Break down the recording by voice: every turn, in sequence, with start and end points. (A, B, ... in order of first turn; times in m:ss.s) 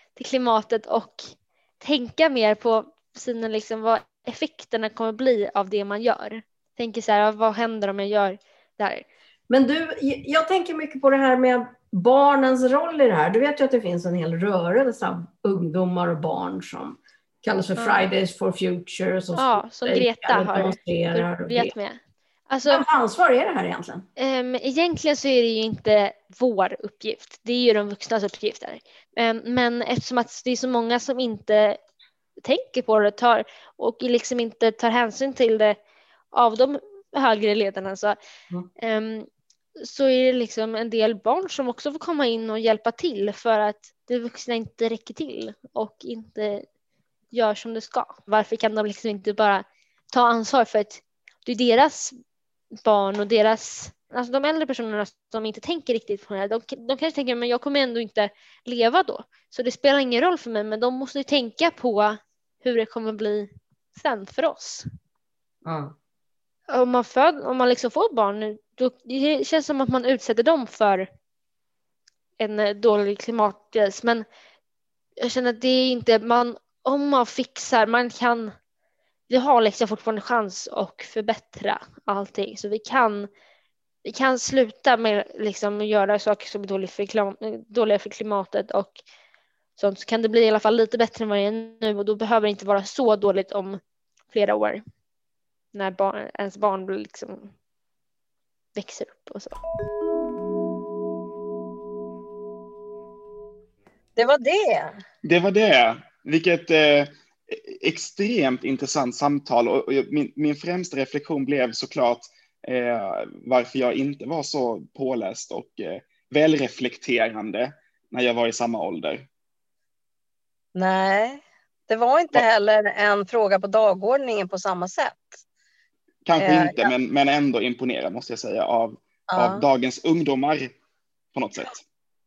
0:00.2-0:09.0 A
0:09.5-0:21.8 B
0:17.8-0:18.1 A
0:19.4-0:22.9 A
0:22.7-0:24.0 B
0:24.2-0:31.8 A
0:32.4-0:35.8 A
0:36.3-0:38.2 A
0:38.8-0:39.3 A
0:39.8-0:46.6 A
0:47.3-0:52.2 A
0:52.8-1:04.8 A
1:05.6-1:05.9 B
1:06.7-1:11.1 A
1:12.4-1:14.2 A
1:15.2-1:18.5 A
1:19.3-1:23.3 A
1:24.0-1:29.0 A
1:29.8-1:33.8 A
1:34.3-1:34.8 A
1:35.7-1:37.5 A
1:38.8-1:39.6 A
1:44.2-1:45.0 C
1:45.2-1:59.3 D
2:00.8-2:05.4 C
2:06.2-2:10.7 D
2:06.4-2:06.9 C
2:09.3-2:09.6 C
2:11.3-2:11.8 D